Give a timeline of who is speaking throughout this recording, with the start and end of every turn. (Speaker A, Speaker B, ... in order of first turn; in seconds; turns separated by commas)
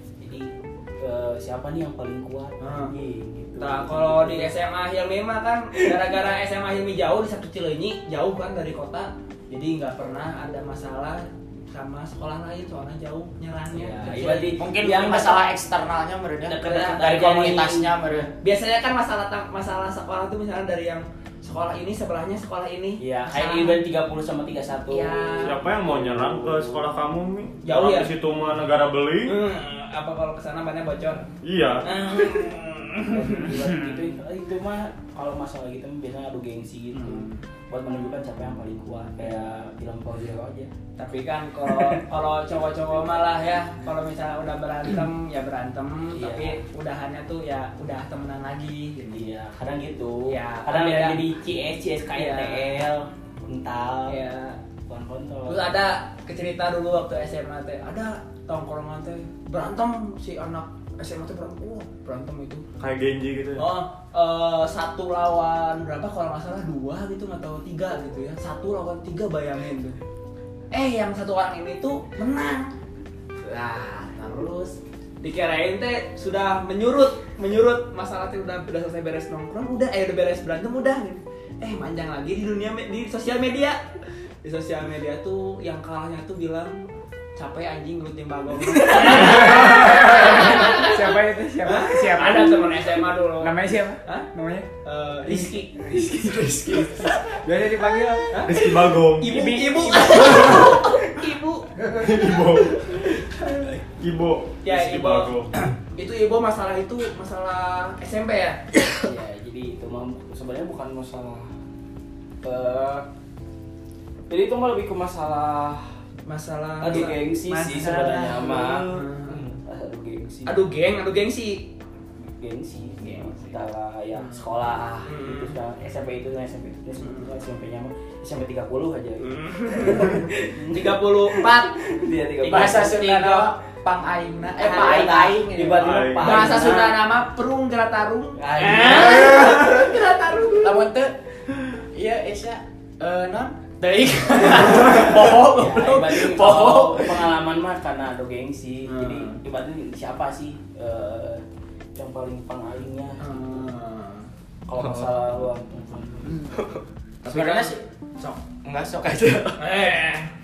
Speaker A: 0.2-4.5, Speaker B: 2.6-2.9, Speaker B: 3.6-14.6, Speaker A: 13.7-15.4, Speaker C: 14.5-18.3, Speaker A: 16.5-17.9, Speaker B: 16.7-17.0, Speaker B: 18.4-23.8, Speaker A: 23.0-26.9, Speaker B: 24.9-25.6, Speaker D: 25.4-29.4, Speaker B: 27.6-28.1, Speaker B: 29.2-31.2, Speaker D: 31.4-32.1, Speaker B: 31.8-33.5, Speaker A: 33.1-40.7, Speaker B: 37.0-37.3, Speaker B: 41.0-49.1, Speaker A: 41.7-42.0, Speaker A: 46.1-46.6, Speaker A: 49.0-54.2, Speaker B: 50.3-51.2, Speaker B: 52.1-52.8, Speaker B: 54.1-54.6, Speaker A: 54.9-55.7, Speaker B: 55.5-62.6, Speaker D: 62.8-63.7, Speaker B: 63.6-70.0, Speaker B: 70.7-72.7, Speaker B: 73.4-83.8, Speaker B: 84.4-94.3, Speaker E: 89.0-92.9, Speaker A: 89.1-89.4, Speaker E: 93.4-94.7, Speaker B: 94.8-97.1, Speaker E: 97.4-98.4, Speaker B: 98.3-101.7, Speaker D: 98.4-100.8, Speaker E: 99.3-100.0, Speaker D: 101.9-103.1, Speaker B: 103.4-103.7, Speaker D: 104.0-105.5, Speaker B: 104.6-105.3, Speaker B: 106.0-108.6, Speaker A: 109.0-111.5, Speaker A: 112.4-113.0, Speaker A: 114.3-115.9, Speaker B: 116.2-119.5, Speaker A: 116.8-120.6, Speaker B: 120.5-121.7, Speaker A: 122.2-133.2, Speaker B: 123.0-123.5, Speaker B: 124.2-124.4, Speaker B: 125.0-125.5, Speaker B: 127.0-127.3, Speaker B: 129.2-131.7, Speaker C: 132.4-135.8, Speaker B: 132.4-133.4, Speaker B: 134.5-140.8, Speaker A: 134.7-137.0, Speaker D: 135.8-136.6, Speaker A: 138.4-139.7, Speaker C: 140.5-141.1, Speaker C: 141.9-145.6, Speaker B: 144.3-146.7, Speaker A: 144.8-151.4, Speaker C: 146.4-147.0, Speaker B: 148.9-149.4, Speaker A: 151.9-153.7, Speaker B: 153.2-154.3, Speaker A: 154.7-156.5, Speaker B: 156.2-156.5, Speaker C: 157.2-159.5, Speaker B: 157.3-157.6, Speaker B: 159.6-160.3